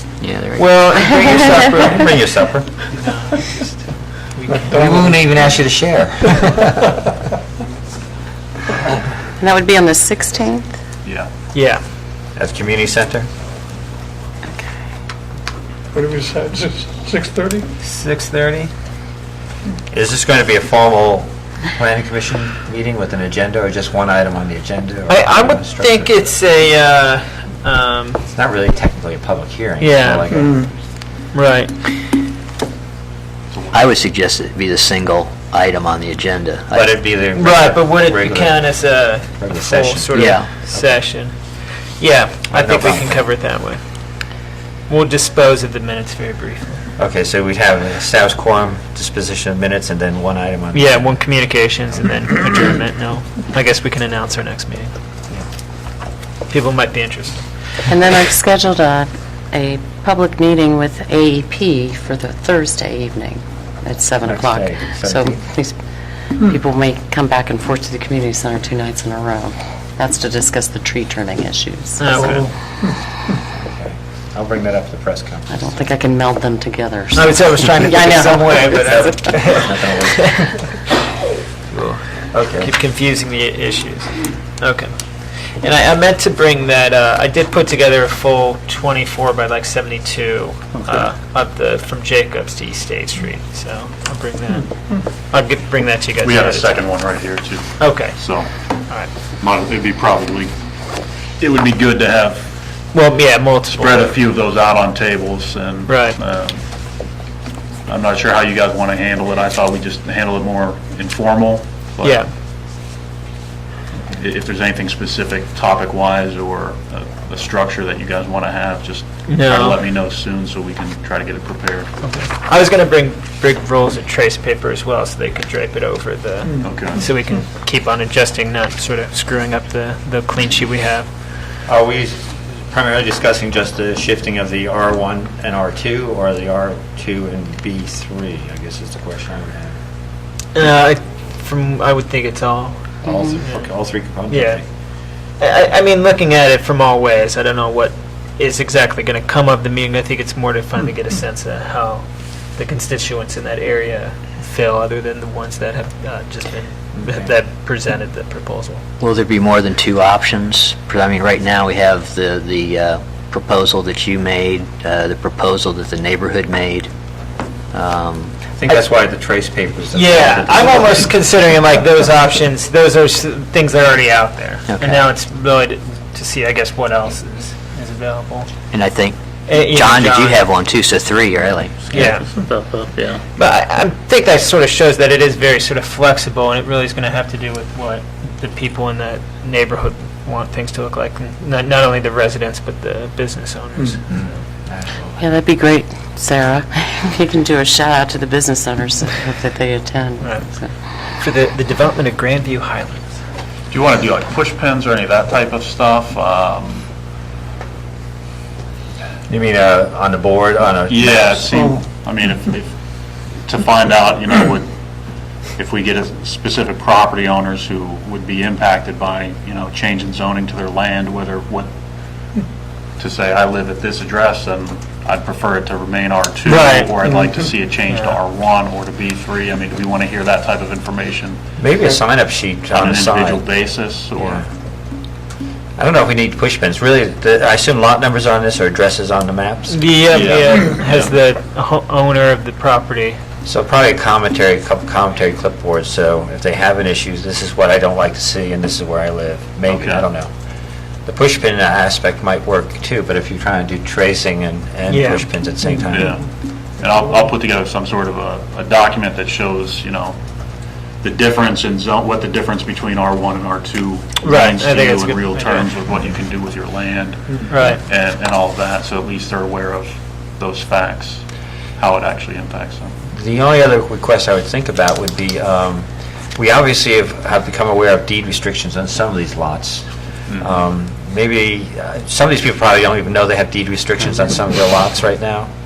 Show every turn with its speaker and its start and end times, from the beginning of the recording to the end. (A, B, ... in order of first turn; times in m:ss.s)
0:00.2-0:00.7 A
0:00.6-0:02.8 B
0:01.3-0:01.8 C
0:02.9-0:05.2 C
0:04.5-0:05.2 D
0:04.7-0:06.7 B
0:09.4-0:10.8 E
0:11.0-0:11.3 F
0:11.5-0:11.8 C
0:12.4-0:13.3 B
0:15.9-0:17.7 D
0:17.8-0:18.7 C
0:19.9-0:26.2 B
0:25.1-0:28.2 C
0:28.3-0:30.6 B
0:29.8-0:30.3 C
0:30.3-0:30.7 D
0:31.3-0:31.7 C
0:33.5-0:33.9 F
0:33.7-0:36.9 A
0:36.7-0:38.8 B
0:37.4-0:41.4 C
0:39.4-0:40.2 B
0:40.2-0:40.5 A
0:40.7-0:41.0 B
0:42.0-0:43.8 C
0:42.5-0:43.2 B
0:44.9-0:46.8 C
0:47.0-0:51.5 B
0:50.7-0:54.9 C
0:56.5-0:57.4 C
0:57.9-1:05.8 E
1:04.2-1:05.4 B
1:06.3-1:12.4 E
1:12.0-1:12.5 C
1:13.6-1:15.8 B
1:15.5-1:19.3 E
1:17.2-1:20.6 C
1:18.6-1:20.5 B
1:21.7-1:24.9 C
1:22.3-1:22.7 B
1:25.6-1:34.7 C
1:35.2-1:36.7 C
1:36.2-1:38.5 F
1:37.8-1:38.2 C
1:39.4-1:40.5 F
1:41.4-1:42.5 F
1:42.9-1:44.1 C
1:43.7-1:46.6 F
1:45.9-1:46.2 C
1:47.9-1:52.2 F
1:52.0-1:52.3 C
1:54.2-2:01.9 F
1:59.3-1:59.8 C
2:02.1-2:11.1 C
2:06.6-2:07.0 F
2:11.7-2:19.8 B
2:20.6-2:22.8 C
2:23.0-2:24.6 B
2:24.3-2:24.6 C
2:25.4-2:38.8 C
2:37.0-2:37.3 B
2:39.0-2:46.9 A
2:47.7-2:48.4 A
2:48.6-2:51.1 B
2:49.9-2:58.5 C
2:54.7-2:55.0 A
2:58.7-3:01.8 A
2:59.5-3:00.4 C
3:01.9-3:02.3 C
3:01.9-3:03.2 F
3:03.4-3:14.2 C
3:14.1-3:15.2 B
3:15.2-3:20.7 E
3:20.2-3:20.6 C
3:21.2-3:23.1 C
3:23.7-3:26.9 F
3:29.3-3:31.6 B
3:30.9-3:32.7 F
3:33.4-3:34.7 F
3:35.6-3:41.7 F
3:43.0-3:51.4 F
3:46.5-3:47.0 C
3:47.9-3:48.2 C
3:51.6-3:53.5 B
3:52.7-3:54.5 F
3:54.2-3:54.5 B
3:55.8-4:00.5 B
3:59.7-4:03.2 C
4:00.1-4:01.1 F
4:03.4-4:10.3 B
4:09.7-4:10.1 F
4:11.0-4:16.2 B
4:14.9-4:15.2 C
4:15.9-4:16.3 F
4:16.8-4:20.2 F
4:21.0-4:31.2 F
4:24.2-4:25.7 C
4:27.5-4:27.8 C
4:31.8-4:32.9 F
4:33.1-4:39.9 B
4:40.3-4:40.6 F
4:40.4-4:45.5 B